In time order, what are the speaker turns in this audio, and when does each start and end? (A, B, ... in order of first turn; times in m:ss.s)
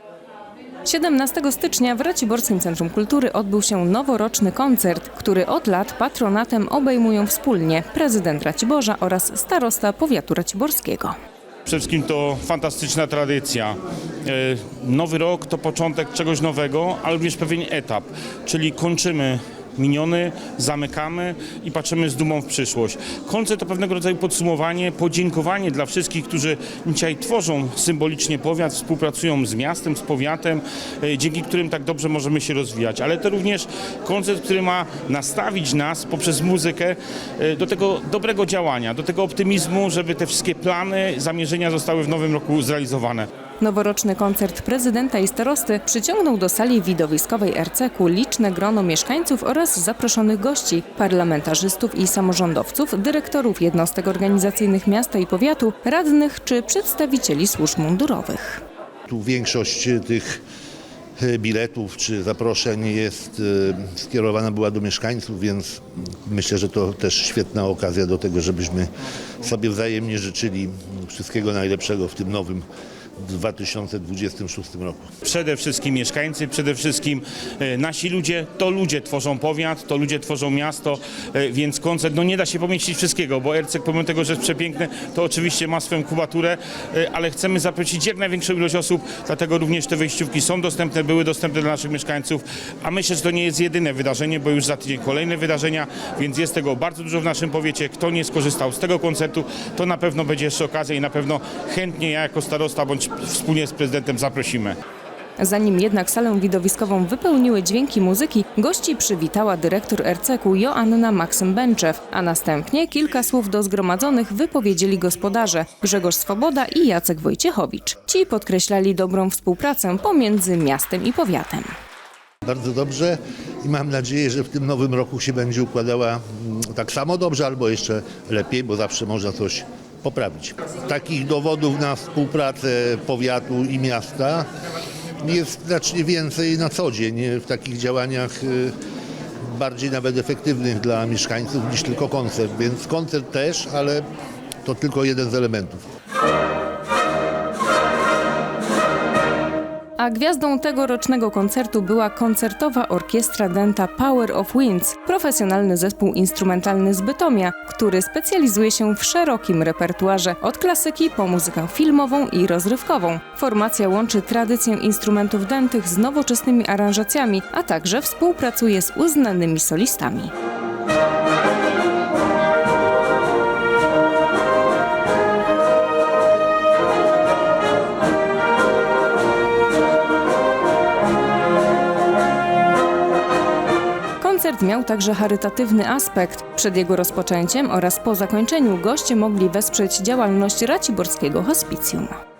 0:00.8-0:11.1 A
0:11.6-0:43.2 B
0:43.6-0:58.6 A
0:59.1-1:00.4 C
1:01.2-1:08.9 C
1:09.4-1:12.6 C
1:13.2-1:15.1 C
1:15.2-1:44.8 B
1:45.4-2:01.7 A
2:02.4-2:14.4 C
2:15.2-2:18.7 C
2:19.4-2:24.0 C
2:24.6-2:25.8 C
2:30.0-2:50.3 A
3:04.2-3:12.1 A